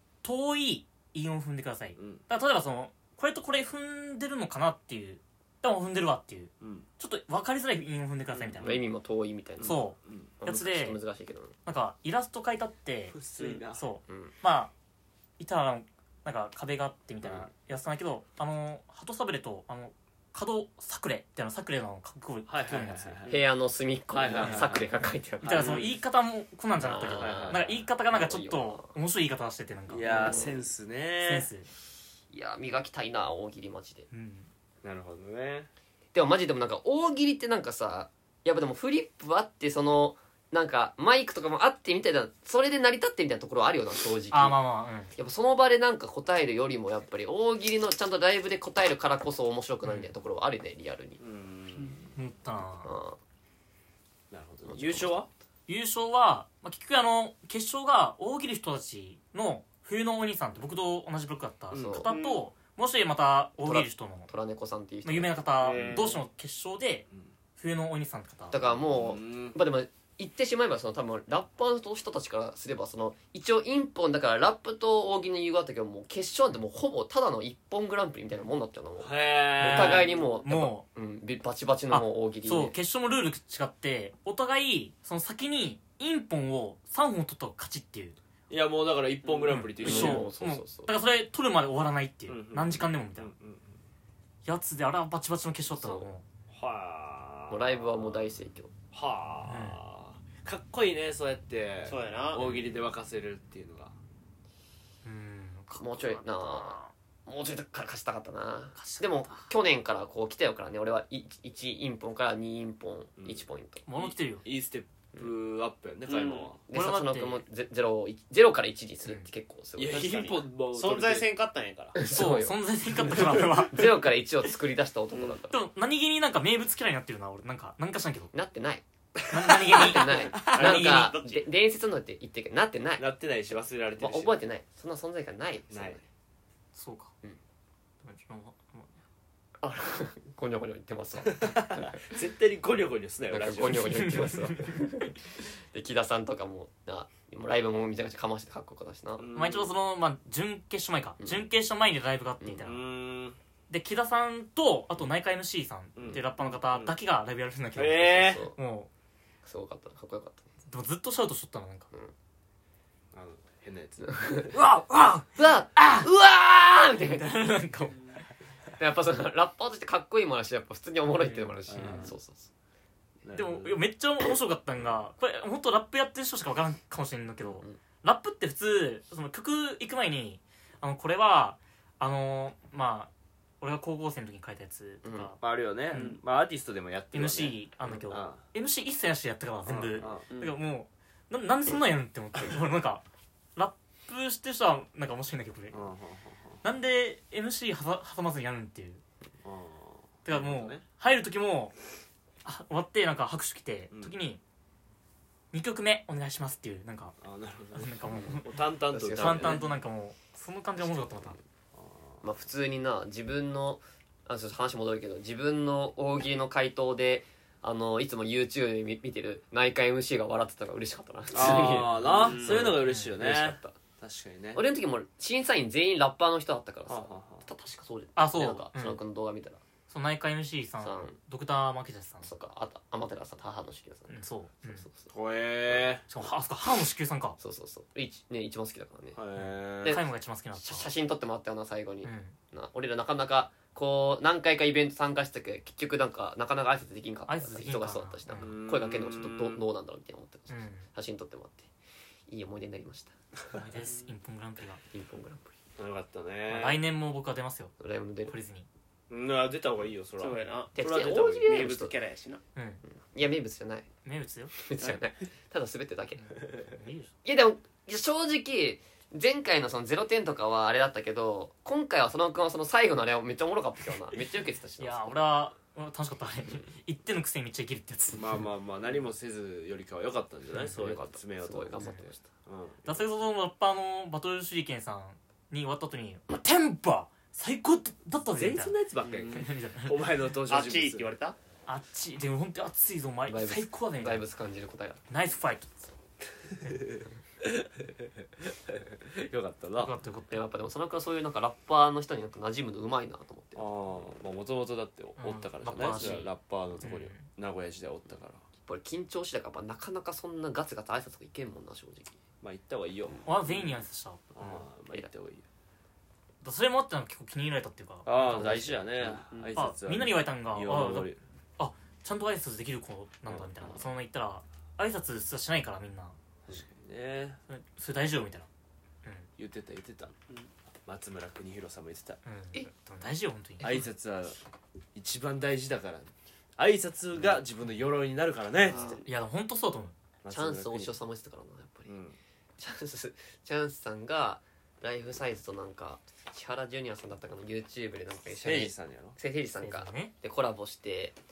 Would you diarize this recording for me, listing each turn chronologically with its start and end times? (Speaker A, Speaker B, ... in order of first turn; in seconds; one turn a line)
Speaker A: 0.2-8.8
Speaker B: 1.9-2.2
Speaker B: 6.6-6.9
Speaker B: 8.4-8.8
Speaker C: 8.6-9.8
Speaker B: 9.6-10.3
Speaker A: 9.6-11.0
Speaker C: 10.4-11.6
Speaker A: 11.7-13.2
Speaker B: 13.1-13.8
Speaker D: 13.4-13.6
Speaker A: 13.7-14.7
Speaker A: 15.4-23.3
Speaker B: 17.2-17.5
Speaker B: 22.5-23.4
Speaker C: 23.3-25.9
Speaker B: 24.1-24.9
Speaker A: 24.3-24.8
Speaker A: 25.4-30.5
Speaker B: 25.5-25.9
Speaker C: 26.8-28.9
Speaker B: 27.2-27.8
Speaker B: 29.9-31.5
Speaker C: 30.1-30.6
Speaker A: 31.2-31.7
Speaker C: 32.3-34.1
Speaker A: 34.1-34.5
Speaker B: 34.8-35.7
Speaker C: 36.1-44.6
Speaker A: 44.3-45.1
Speaker C: 45.1-51.2
Speaker A: 49.8-50.1
Speaker B: 51.2-52.1
Speaker A: 52.1-52.9
Speaker C: 52.8-53.2
Speaker B: 54.3-55.3
Speaker C: 54.7-55.3
Speaker A: 55.7-64.3
Speaker B: 61.7-62.0
Speaker C: 61.7-62.1
Speaker D: 62.1-62.4
Speaker C: 63.6-65.5
Speaker A: 65.0-68.6
Speaker D: 65.6-66.2
Speaker B: 65.7-66.0
Speaker C: 68.5-82.7
Speaker B: 68.9-69.5
Speaker B: 79.0-80.2
Speaker A: 79.6-80.8
Speaker A: 81.9-88.2
Speaker B: 88.5-90.3
Speaker D: 89.2-89.6
Speaker A: 89.5-93.3
Speaker C: 89.8-90.9
Speaker B: 92.3-93.8
Speaker A: 94.4-96.2
Speaker C: 95.7-96.1
Speaker B: 96.5-98.2
Speaker C: 97.5-98.7
Speaker B: 98.9-104.0
Speaker A: 99.5-99.8
Speaker D: 101.8-102.5
Speaker A: 105.0-106.9
Speaker C: 105.7-113.8
Speaker A: 108.7-109.5
Speaker B: 113.2-113.4
Speaker A: 113.8-114.4
Speaker B: 114.0-116.6
Speaker D: 116.1-116.5
Speaker C: 116.7-120.2
Speaker A: 116.7-117.4
Speaker B: 119.8-121.3
Speaker D: 119.9-122.0
Speaker C: 121.9-125.6
Speaker A: 122.1-124.0
Speaker D: 125.1-125.4
Speaker A: 125.5-128.3
Speaker C: 128.3-133.0
Speaker A: 129.3-131.1
Speaker B: 130.1-130.6
Speaker D: 130.5-131.4
Speaker B: 133.0-134.4
Speaker C: 134.0-136.0
Speaker B: 135.7-136.0
Speaker A: 136.7-137.1
Speaker A: 138.0-139.0
Speaker C: 139.6-142.0
Speaker B: 141.2-144.1
Speaker C: 143.3-149.3
Speaker A: 143.7-145.1
Speaker B: 149.2-149.7
Speaker A: 149.3-152.8
Speaker B: 152.6-153.4
Speaker A: 153.7-158.9
Speaker B: 155.9-156.9
Speaker B: 157.8-158.4
Speaker C: 158.1-158.6
Speaker C: 159.4-160.4
Speaker A: 160.7-161.9
Speaker B: 163.1-164.3
Speaker C: 164.0-164.6
Speaker A: 164.5-166.1
Speaker C: 165.3-167.5
Speaker A: 167.0-168.1
Speaker C: 168.8-172.5
Speaker A: 171.2-172.1
Speaker B: 171.7-172.1
Speaker B: 173.2-173.8
Speaker A: 173.3-185.4
Speaker C: 177.5-177.8
Speaker C: 185.0-185.3
Speaker B: 185.4-188.4
Speaker A: 185.9-186.2
Speaker D: 185.9-186.2
Speaker A: 187.1-193.0
Speaker B: 189.7-190.3
Speaker D: 190.3-190.5
Speaker A: 193.6-195.8
Speaker B: 195.7-196.6
Speaker A: 196.6-199.0
Speaker B: 199.4-200.8
Speaker A: 200.2-201.8
Speaker A: 202.4-204.4
Speaker A: 205.5-207.2
Speaker B: 207.2-209.7
Speaker A: 207.8-208.6
Speaker C: 208.9-209.7
Speaker A: 209.1-211.4
Speaker C: 210.8-211.3
Speaker B: 211.7-212.2
Speaker C: 212.2-223.8
Speaker B: 221.3-224.6
Speaker D: 222.0-222.8
Speaker A: 222.8-223.1
Speaker C: 224.5-229.6
Speaker B: 226.9-227.5
Speaker A: 228.2-229.0
Speaker A: 229.9-232.3
Speaker C: 230.8-231.2
Speaker C: 232.2-235.1
Speaker A: 234.1-234.8
Speaker B: 235.1-236.1
Speaker A: 236.1-237.4
Speaker C: 237.4-239.2
Speaker B: 239.2-240.0
Speaker A: 239.3-240.9
Speaker C: 240.6-251.7
Speaker A: 242.0-242.3
Speaker A: 247.3-248.5
Speaker B: 248.3-249.6
Speaker A: 250.5-250.9
Speaker C: 252.3-253.1
Speaker A: 253.5-254.8
Speaker D: 253.8-254.1
Speaker C: 254.9-255.5
Speaker B: 255.8-256.8
Speaker A: 256.5-257.7
Speaker C: 257.8-258.4
Speaker A: 258.3-258.7
Speaker B: 259.1-261.7
Speaker D: 260.2-260.8
Speaker C: 260.7-261.9
Speaker D: 261.4-262.4
Speaker A: 262.6-262.8
Speaker C: 263.0-263.9
Speaker A: 264.0-264.5
Speaker C: 264.6-266.2
Speaker A: 266.6-267.1
Speaker C: 267.2-275.2
Speaker A: 274.8-278.4
Speaker B: 278.1-283.0
Speaker C: 280.8-282.2
Speaker A: 281.8-282.0
Speaker A: 282.8-288.8
Speaker B: 288.4-291.1
Speaker A: 289.3-290.1
Speaker D: 290.5-291.4
Speaker A: 291.6-294.2
Speaker C: 293.3-295.0
Speaker A: 295.1-295.9
Speaker B: 296.5-299.9
Speaker A: 299.8-300.4
Speaker C: 300.3-303.6
Speaker B: 303.6-308.4
Speaker A: 305.2-307.2
Speaker C: 308.6-312.2
Speaker B: 312.4-313.8
Speaker A: 313.2-314.3
Speaker B: 314.3-315.4
Speaker A: 316.4-318.8
Speaker B: 318.0-321.2
Speaker A: 319.5-326.1
Speaker B: 323.3-323.9
Speaker B: 326.5-327.4
Speaker A: 327.5-328.5
Speaker B: 329.4-330.1
Speaker B: 330.9-332.2
Speaker A: 332.2-333.9
Speaker B: 333.6-334.4
Speaker B: 334.9-338.8
Speaker C: 338.7-339.0
Speaker D: 338.7-339.0
Speaker A: 338.7-339.9
Speaker B: 340.2-340.9
Speaker C: 340.3-341.9
Speaker B: 341.9-342.2
Speaker C: 342.6-351.1
Speaker B: 348.4-349.2
Speaker A: 349.6-350.1